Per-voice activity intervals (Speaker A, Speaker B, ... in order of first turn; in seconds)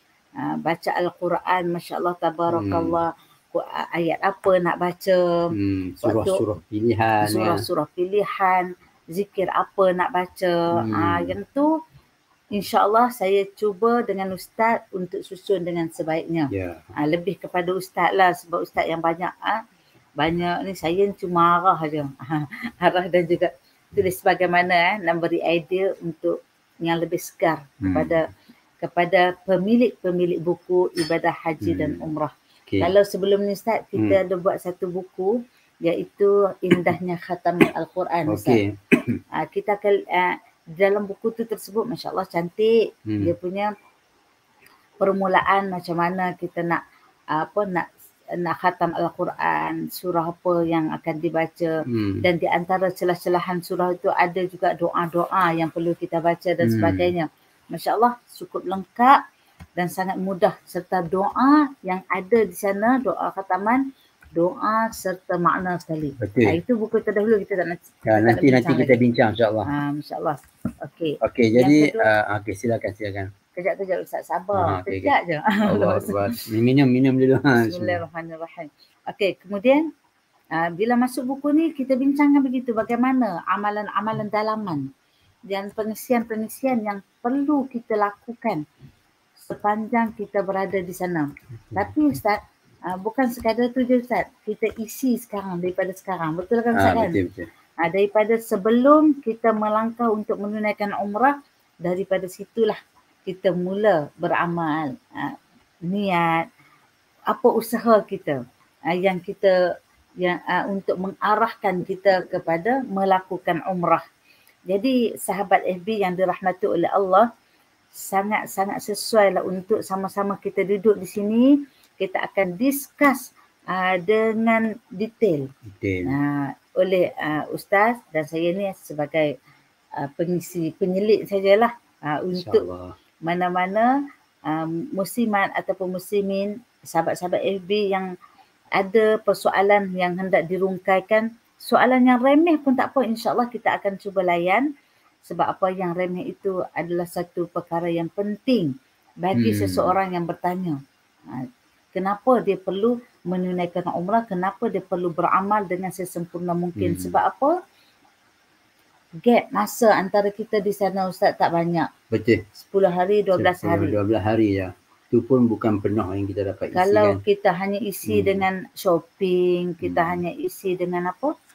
Speaker A: 0.4-6.4, 7.2-11.7, 12.6-19.6, 20.2-28.2, 28.8-38.6, 39.4-43.7, 45.0-46.8, 47.3-47.9, 48.4-51.7, 52.2-59.2, 59.8-63.8, 64.3-69.0, 69.7-72.1, 73.5-76.4, 77.6-79.8, 80.6-84.9, 85.5-88.6, 89.4-92.4, 92.9-97.2, 97.8-101.3, 101.8-105.3, 105.9-106.4, 107.3-108.4, 108.9-109.5, 110.2-114.0, 114.7-117.2, 118.0-125.5, 126.1-129.3, 130.0-132.6, 133.2-133.9, 134.5-138.1, 138.8-144.7, 145.2-150.8, 151.3-157.5, 159.2-161.9, 162.6-163.9, 166.7-171.3
Speaker B: 2.5-3.0, 5.5-7.6, 10.8-11.3, 16.5-16.9, 27.8-28.2, 31.6-32.0, 32.7-32.9, 38.3-39.2, 43.1-43.3, 51.8-52.2, 56.6-57.1, 66.2-66.6, 68.0-69.7, 71.2-73.3, 74.5-75.1, 75.7-78.0, 96.7-97.5, 125.7-126.1, 132.3-132.9, 149.3-150.0, 156.8-157.2, 162.1-162.4, 163.3-167.2, 168.1-168.5, 169.8-170.2